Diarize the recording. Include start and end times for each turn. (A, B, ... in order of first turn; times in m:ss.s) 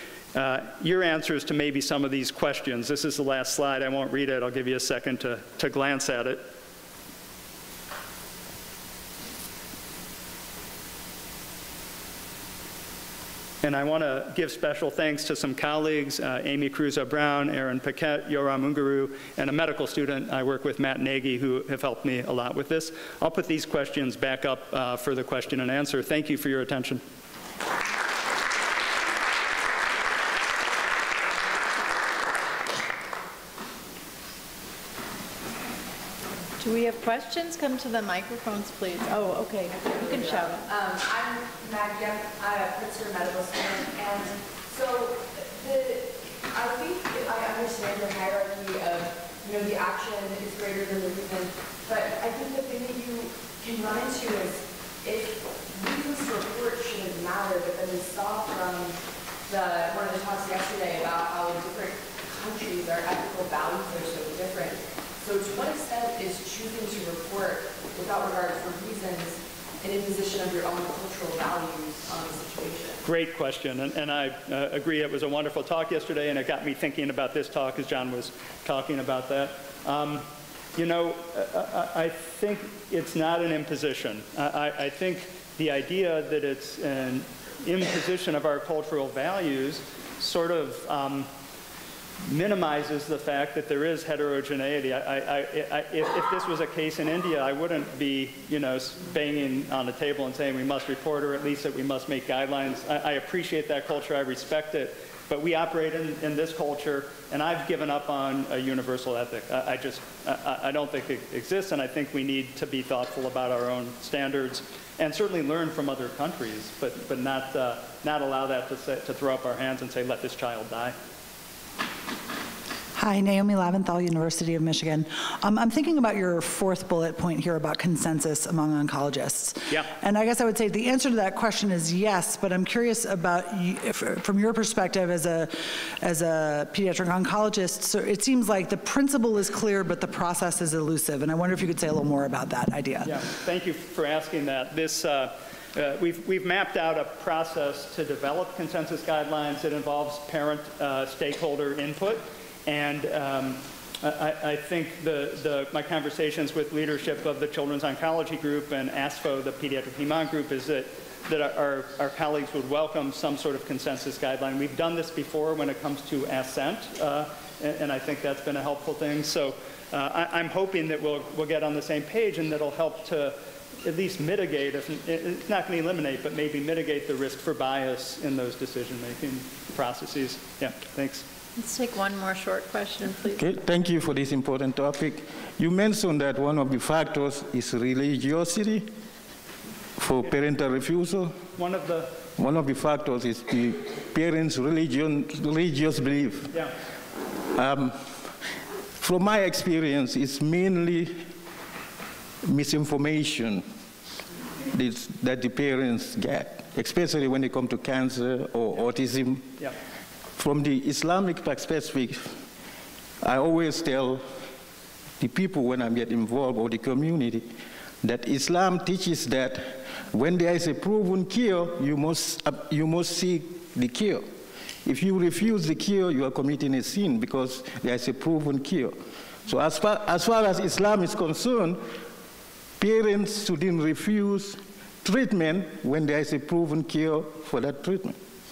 0:00.3-0:06.4 A
0:13.6-0:27.0 A
0:36.6-0:40.7 B
0:39.7-1:13.0 C
1:13.0-1:31.3 A
1:32.2-2:00.9 A
2:03.0-2:23.2 D
2:23.0-3:01.2 A
3:01.6-3:03.4 B
3:03.3-3:08.9 E
3:10.0-3:11.4 E
3:11.6-3:12.1 A
3:12.4-3:16.5 E
3:17.5-3:18.1 E
3:19.0-3:21.2 E
3:22.4-3:23.6 E
3:24.7-3:29.5 E
3:30.4-3:32.3 E
3:33.2-3:34.2 E
3:35.2-3:37.5 E
3:38.0-3:44.2 E
3:44.8-3:51.8 E
3:52.8-3:58.2 E